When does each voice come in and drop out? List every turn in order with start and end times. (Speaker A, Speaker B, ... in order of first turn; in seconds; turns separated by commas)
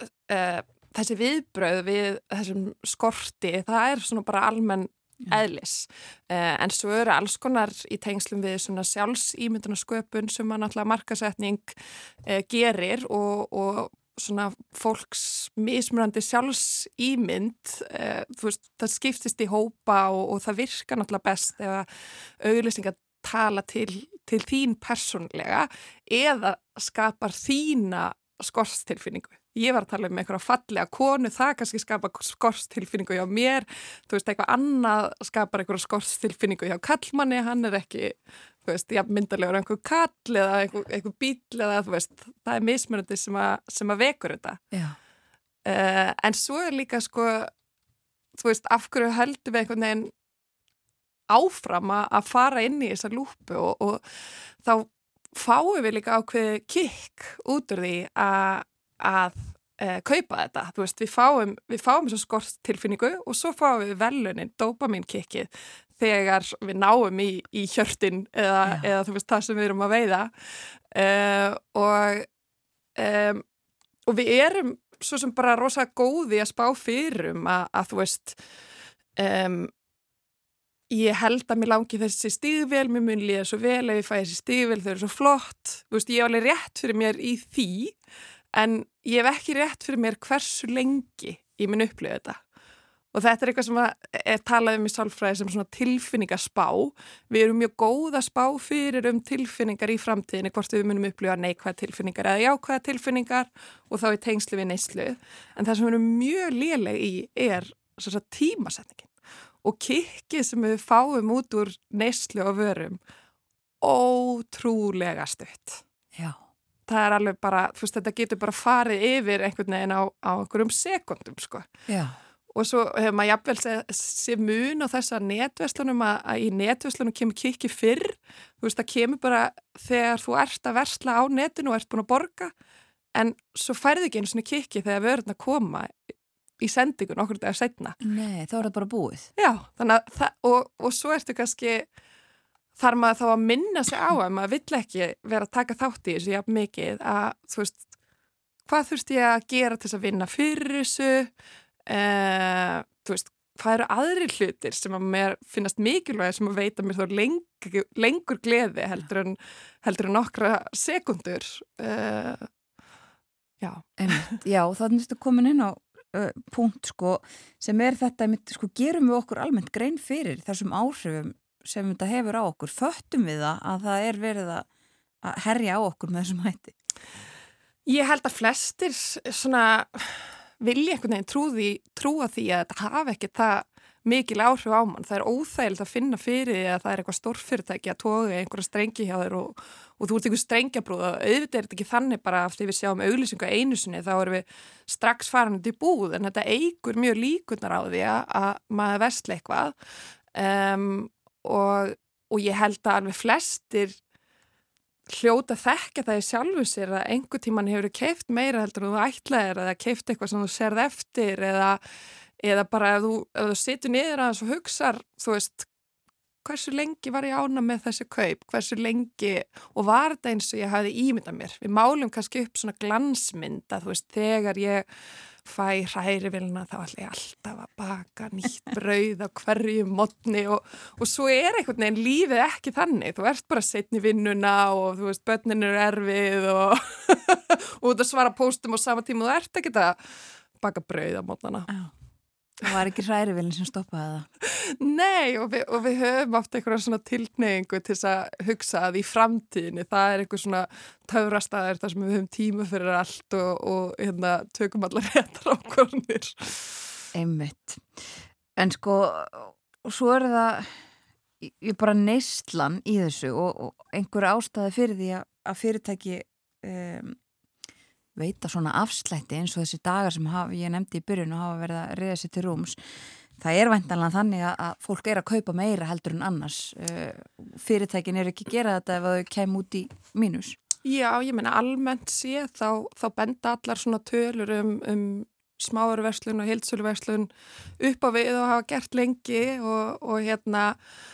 Speaker A: 0.3-21.9, Speaker A: 22.4-44.6, Speaker B: 44.7-45.0, Speaker A: 45.6-47.5, Speaker A: 48.4-50.1, Speaker A: 51.3-54.1, Speaker A: 54.6-70.3, Speaker A: 70.9-72.3, Speaker A: 73.0-73.4, Speaker A: 74.1-78.4, Speaker A: 79.2-79.7, Speaker A: 80.9-88.0, Speaker A: 88.5-92.4, Speaker A: 93.1-109.1, Speaker A: 109.6-113.0, Speaker A: 113.8-115.8, Speaker A: 116.9-121.7, Speaker B: 121.9-122.2, Speaker A: 122.5-132.5, Speaker A: 133.2-135.9, Speaker A: 136.6-137.9, Speaker B: 138.0-139.3, Speaker A: 139.4-141.9, Speaker A: 142.8-147.8, Speaker A: 148.7-151.3, Speaker A: 151.9-162.5, Speaker A: 163.6-164.3, Speaker B: 164.0-174.7, Speaker B: 175.2-176.7, Speaker A: 177.8-199.7, Speaker A: 200.3-204.0, Speaker A: 205.1-211.8, Speaker A: 212.4-215.7, Speaker A: 216.4-224.9, Speaker A: 225.4-240.0, Speaker A: 240.6-241.7, Speaker B: 242.6-244.3, Speaker A: 244.5-256.7, Speaker B: 257.1-260.8, Speaker B: 261.4-267.2, Speaker B: 268.2-272.8, Speaker B: 273.4-280.6, Speaker A: 280.9-290.8